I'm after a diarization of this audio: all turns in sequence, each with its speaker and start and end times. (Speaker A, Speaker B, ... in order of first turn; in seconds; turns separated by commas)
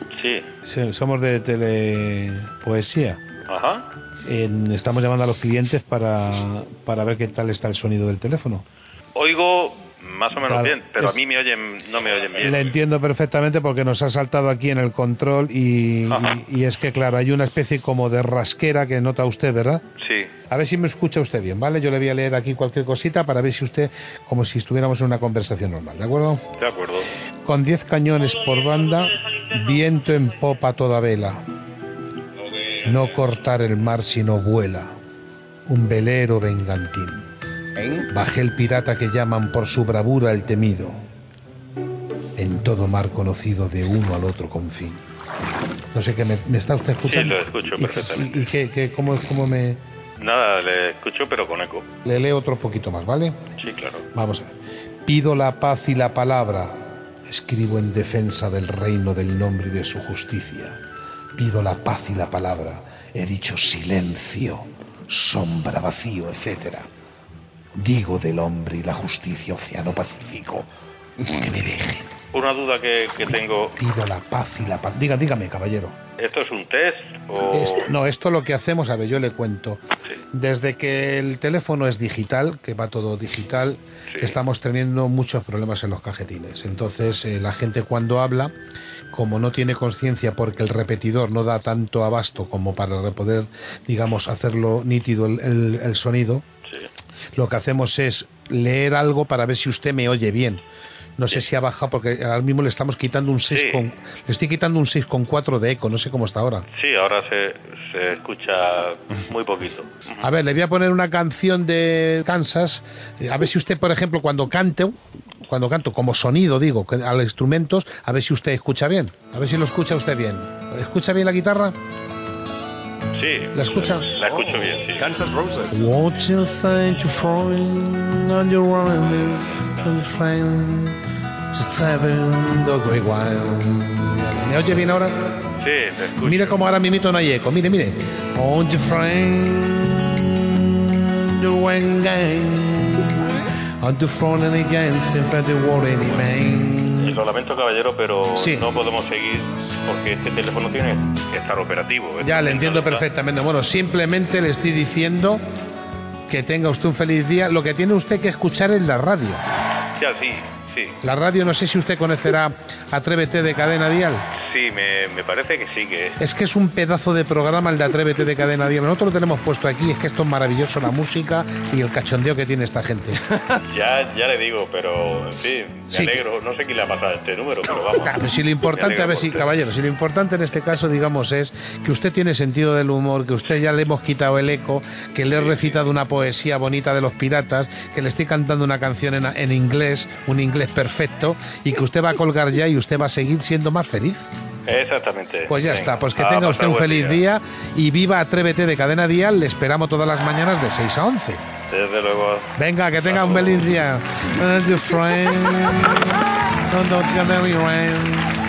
Speaker A: 0.1-0.5, Speaker B: 0.6-3.2, Speaker A: 3.5-3.9, Speaker B: 4.2-8.6, Speaker A: 9.1-12.7, Speaker B: 10.3-11.2, Speaker B: 12.4-19.8, Speaker A: 16.1-16.4, Speaker A: 20.0-20.3, Speaker B: 20.5-26.4, Speaker A: 26.6-27.1, Speaker B: 27.4-31.4, Speaker B: 32.8-34.9, Speaker B: 35.6-37.2, Speaker C: 37.8-38.1, Speaker B: 38.1-41.0, Speaker B: 42.4-45.0, Speaker B: 45.9-49.8, Speaker A: 47.0-48.5, Speaker A: 50.2-51.9, Speaker B: 52.0-53.4, Speaker A: 53.6-54.0, Speaker B: 54.1-54.5, Speaker B: 55.0-60.8, Speaker B: 61.4-66.9, Speaker B: 67.7-70.7, Speaker B: 71.2-72.1, Speaker A: 72.3-73.8, Speaker B: 73.8-76.0, Speaker A: 76.2-77.9, Speaker B: 77.5-88.5, Speaker A: 84.1-84.4, Speaker B: 89.1-96.4, Speaker B: 97.3-100.6, Speaker B: 101.2-106.7, Speaker A: 103.5-103.8, Speaker A: 106.8-110.2, Speaker B: 110.2-121.7, Speaker A: 123.2-125.1, Speaker B: 123.5-124.1, Speaker C: 124.2-125.8, Speaker B: 125.7-131.0, Speaker B: 131.5-135.1, Speaker A: 135.6-136.6, Speaker B: 136.2-147.2, Speaker A: 147.0-153.1, Speaker B: 148.3-148.7, Speaker B: 152.2-155.4, Speaker B: 156.3-159.4, Speaker A: 159.9-161.0, Speaker B: 161.0-164.3, Speaker A: 164.4-166.2, Speaker B: 166.2-173.2, Speaker A: 173.7-179.5, Speaker B: 175.9-176.2, Speaker B: 177.9-194.2, Speaker A: 185.3-185.7, Speaker A: 194.7-197.2, Speaker B: 195.5-201.4, Speaker A: 201.7-202.5, Speaker B: 202.6-208.4, Speaker A: 203.0-203.7